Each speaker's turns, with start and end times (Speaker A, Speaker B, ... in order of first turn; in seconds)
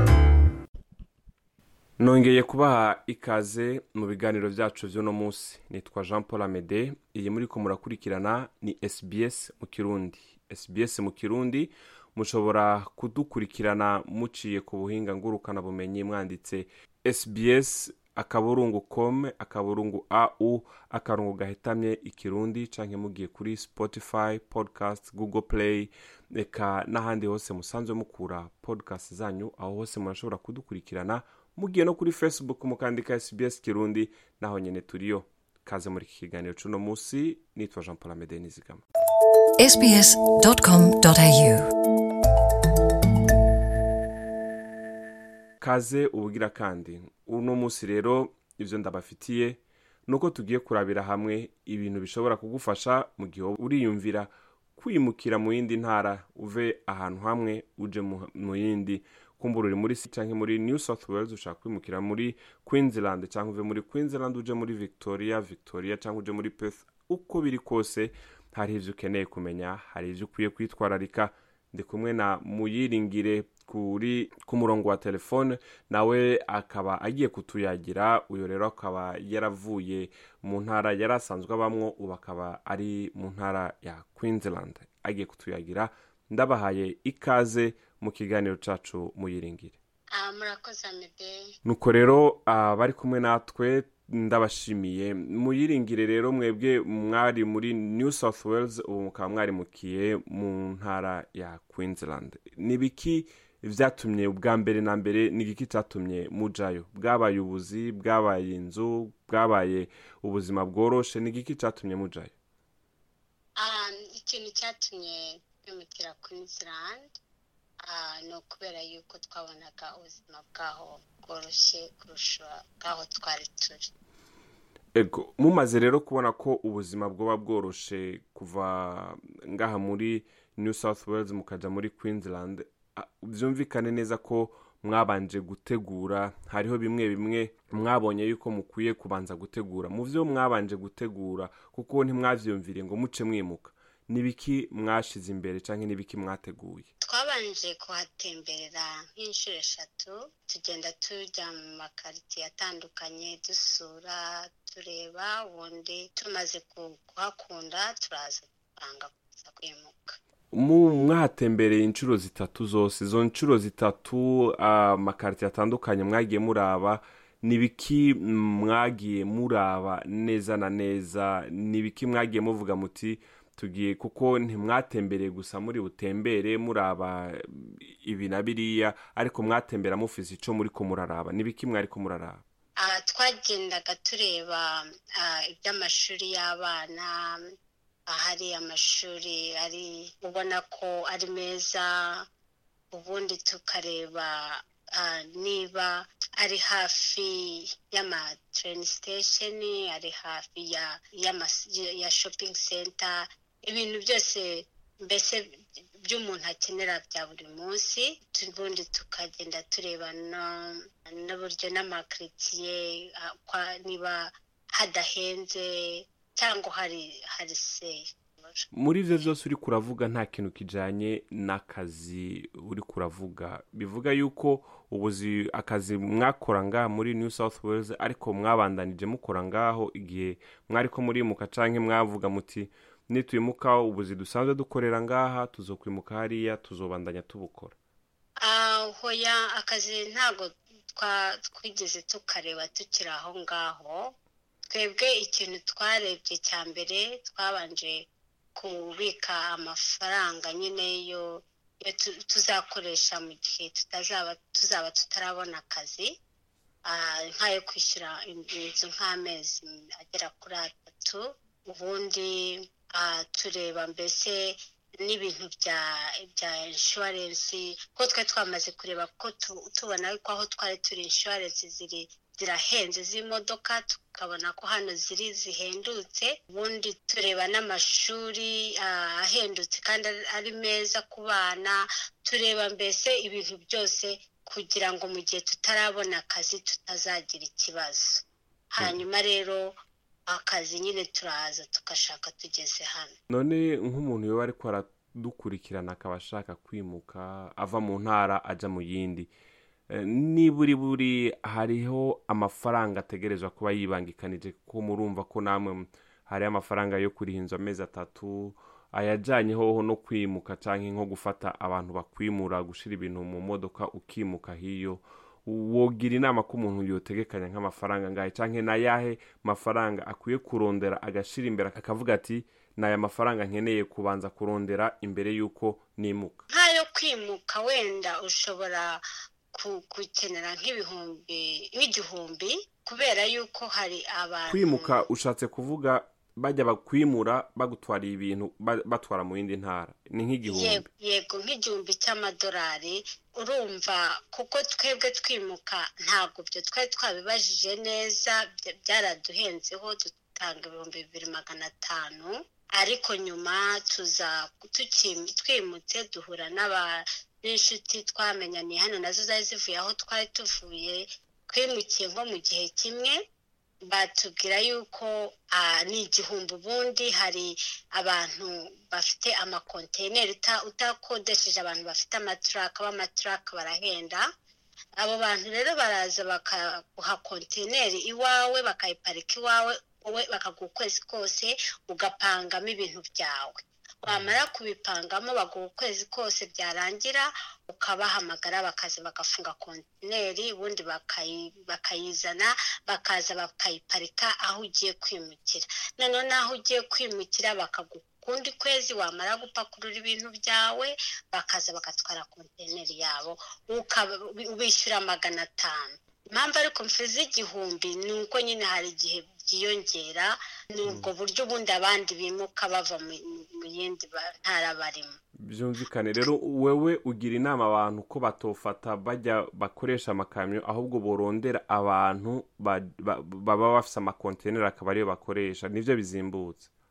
Speaker A: 2.0-38.8, 45.6-89.8, 91.6-112.3, 125.0-146.9, 160.5-182.4, 218.7-237.7, 293.3-299.3, 299.9-326.4, 334.5-340.9, 384.1-384.4, 415.4-426.7
Speaker B: 39.6-41.7
Speaker C: 90.1-91.4, 113.6-117.1, 117.8-123.9, 147.0-160.2, 182.8-187.4, 188.1-192.2, 192.9-205.4, 206.0-218.7, 238.4-244.2, 244.7-256.1, 256.9-293.1, 326.5-335.0, 340.4-363.2, 363.8-374.2, 375.0-415.1